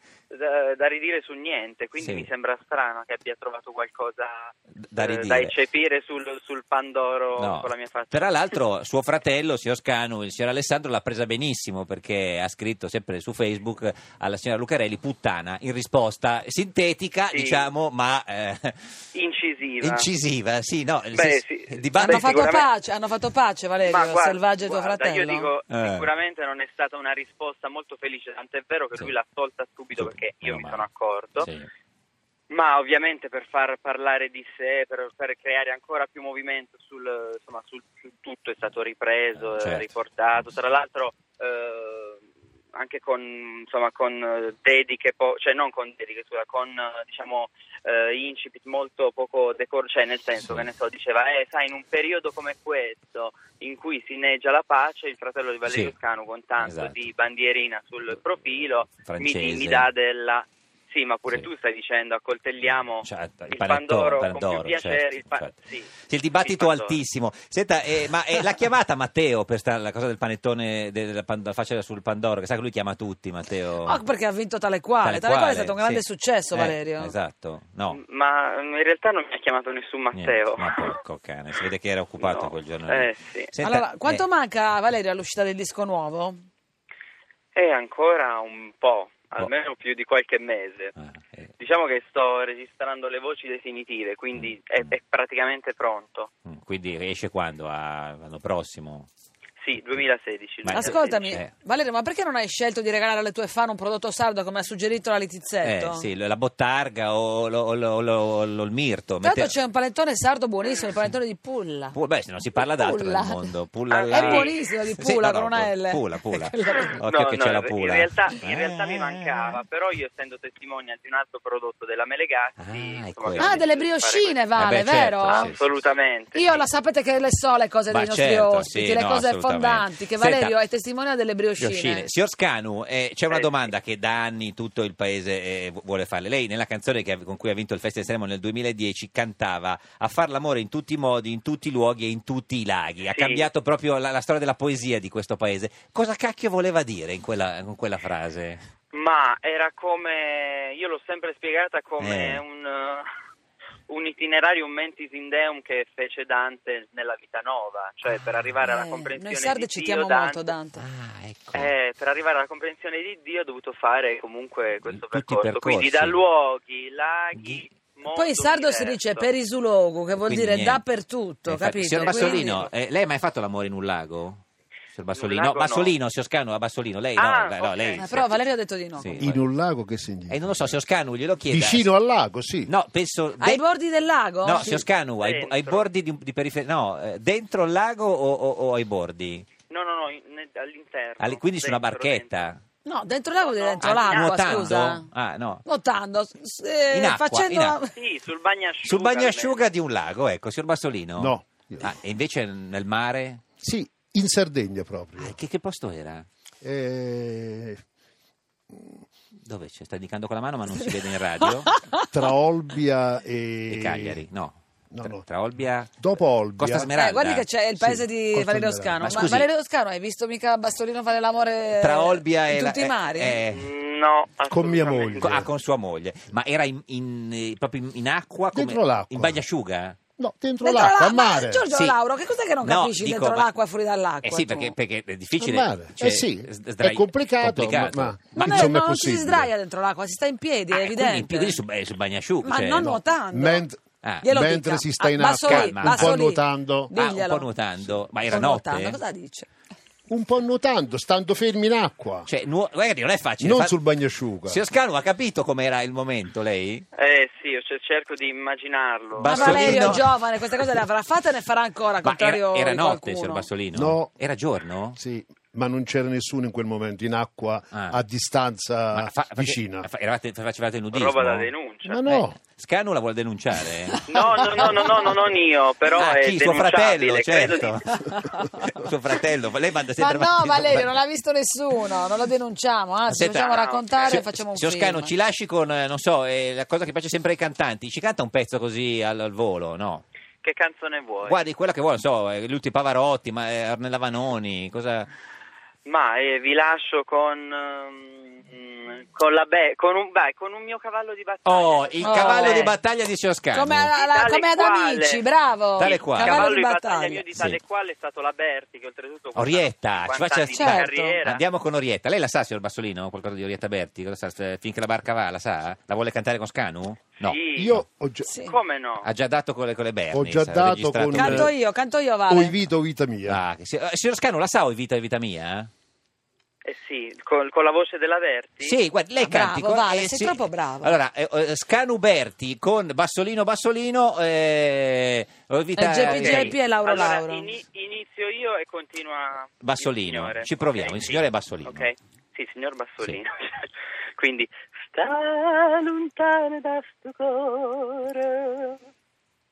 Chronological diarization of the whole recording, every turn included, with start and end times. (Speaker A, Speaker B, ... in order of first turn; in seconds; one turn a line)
Speaker A: 0.3-8.5
Speaker B: 2.0-2.3
Speaker B: 4.8-5.5
Speaker B: 7.4-18.9
Speaker A: 17.3-17.7
Speaker A: 19.1-20.1
Speaker B: 19.8-22.6
Speaker A: 21.1-22.7
Speaker C: 22.0-25.5
Speaker A: 23.8-31.5
Speaker B: 25.7-26.1
Speaker B: 29.9-30.9
Speaker B: 31.4-31.7
Speaker A: 32.5-42.2
Speaker B: 39.4-39.9
Speaker A: 42.7-67.0
Speaker B: 55.7-55.9
Speaker B: 56.6-57.1
Speaker B: 59.0-59.9
Speaker B: 62.6-65.5
Speaker B: 66.1-74.0
Speaker C: 73.8-77.1
Speaker B: 75.0-78.0
Speaker A: 77.9-81.0
Speaker B: 80.1-84.2
Speaker A: 82.2-83.5
Speaker C: 83.6-86.4
Speaker A: 87.5-90.9
Speaker B: 91.0-91.5
Speaker A: 91.6-96.3
Speaker B: 94.3-94.9
Speaker B: 96.5-99.1
Speaker A: 99.6-101.4
Speaker B: 100.6-101.5
Speaker C: 100.7-106.1
Speaker B: 105.6-109.5
Speaker C: 109.2-112.0
Speaker A: 110.6-110.9
Speaker B: 111.9-119.6
Speaker C: 112.6-113.5
Speaker A: 113.9-114.6
Speaker C: 114.1-117.0
Speaker A: 117.0-124.4
Speaker B: 122.6-123.6
Speaker C: 123.4-125.6
Speaker B: 124.6-125.6
Speaker A: 125.2-126.6
Speaker C: 126.3-132.1
Speaker B: 127.9-130.6
Speaker B: 131.6-148.7
Speaker A: 143.1-143.4
Speaker A: 148.9-153.1
Speaker B: 152.0-152.4
Speaker A: 153.9-160.5
Speaker C: 158.6-160.8
Speaker B: 160.8-161.7
Speaker A: 161.5-169.3
Speaker B: 164.8-166.2
Speaker B: 167.4-167.6
Speaker C: 168.1-172.7
Speaker B: 170.2-170.8
Speaker B: 171.4-174.4
Speaker A: 172.1-172.4
Speaker B: 174.9-178.3
Speaker A: 175.1-175.9
Speaker A: 177.2-178.3
Speaker C: 178.0-179.2
Speaker B: 179.0-179.4
Speaker D: 179.2-180.8
Speaker B: 180.3-181.9
Speaker D: 181.5-182.7
Speaker B: 182.7-183.6
Speaker C: 183.4-184.8
Speaker B: 184.4-189.5
Speaker A: 185.2-185.9
Speaker A: 189.7-192.5
Speaker B: 191.2-192.6
Speaker C: 192.8-195.1
Speaker A: 193.4-194.8
Speaker B: 193.8-195.7
Speaker C: 195.7-197.9
Speaker B: 196.9-197.8
Speaker A: 197.9-199.6
Speaker B: 198.8-203.4
Speaker D: 201.2-201.9
Speaker D: 203.6-205.4
Speaker B: 205.2-206.3
Speaker D: 206.6-207.8
Speaker D: 208.7-209.0
Speaker B: 209.4-211.7
Speaker C: 210.9-212.1
Speaker D: 212.1-214.2
Speaker B: 213.7-215.9
Speaker D: 214.9-215.2
Speaker D: 216.0-216.9
Speaker B: 216.6-217.5
Speaker C: 216.9-223.4
Speaker D: 217.8-219.3
Speaker B: 219.0-219.5
Speaker B: 221.8-223.6
Speaker A: 223.5-225.4
Speaker D: 224.5-225.5
Speaker B: 225.2-230.0
Speaker D: 228.5-229.4
Speaker D: 230.2-231.7
Speaker C: 230.6-234.7
Speaker B: 231.7-232.0
Speaker B: 232.6-233.5
Speaker B: 234.2-238.8
Speaker D: 235.4-239.5
Speaker C: 238.4-241.6
Speaker B: 240.7-242.9
Speaker C: 242.4-243.7
Speaker D: 242.8-246.9
Speaker B: 244.0-244.3
Speaker C: 244.2-247.5
Speaker B: 245.4-246.2
Speaker B: 246.9-249.0
Speaker C: 248.1-249.5
Speaker D: 250.1-252.3
Speaker B: 252.3-253.8
Speaker D: 253.4-254.6
Speaker B: 254.4-256.9
Speaker A: 256.9-260.0
Speaker B: 259.2-260.1
Speaker C: 259.2-263.5
Speaker D: 259.3-260.0
Speaker B: 262.0-265.0
Speaker D: 263.7-264.1
Speaker D: 264.9-269.9
Speaker B: 267.7-268.0
Speaker B: 268.9-271.5
Speaker A: 270.9-272.2
Speaker D: 271.9-272.4
Speaker B: 272.1-274.0
Speaker C: 273.9-274.9
Speaker A: 274.1-278.0
Speaker B: 276.0-280.9
Speaker C: 278.0-278.7
Speaker C: 280.0-285.1
Speaker B: 283.1-283.6
Speaker A: 283.4-284.2
Speaker B: 284.1-290.0
Speaker A: 290.4-291.4
Speaker B: 291.2-295.1
Speaker A: 295.9-302.7
Speaker B: 301.4-303.9
Speaker C: 302.0-302.7
Speaker C: 303.5-307.2
Speaker A: 303.9-305.2
Speaker B: 305.8-306.5
Speaker A: 305.8-311.4
Speaker B: 309.4-317.9
Speaker C: 310.5-311.2
Speaker A: 317.2-317.8
Speaker D: 317.6-318.3
Speaker C: 318.2-318.6
Speaker A: 318.4-319.1
Speaker B: 319.0-321.5
Speaker D: 320.1-321.6
Speaker C: 321.1-322.6
Speaker D: 322.3-323.4
Speaker B: 323.2-325.7
Speaker A: 326.6-328.8
Speaker B: 328.6-336.6
Speaker C: 329.2-331.0
Speaker C: 335.8-337.5
Speaker A: 336.0-348.8
Speaker B: 339.6-341.9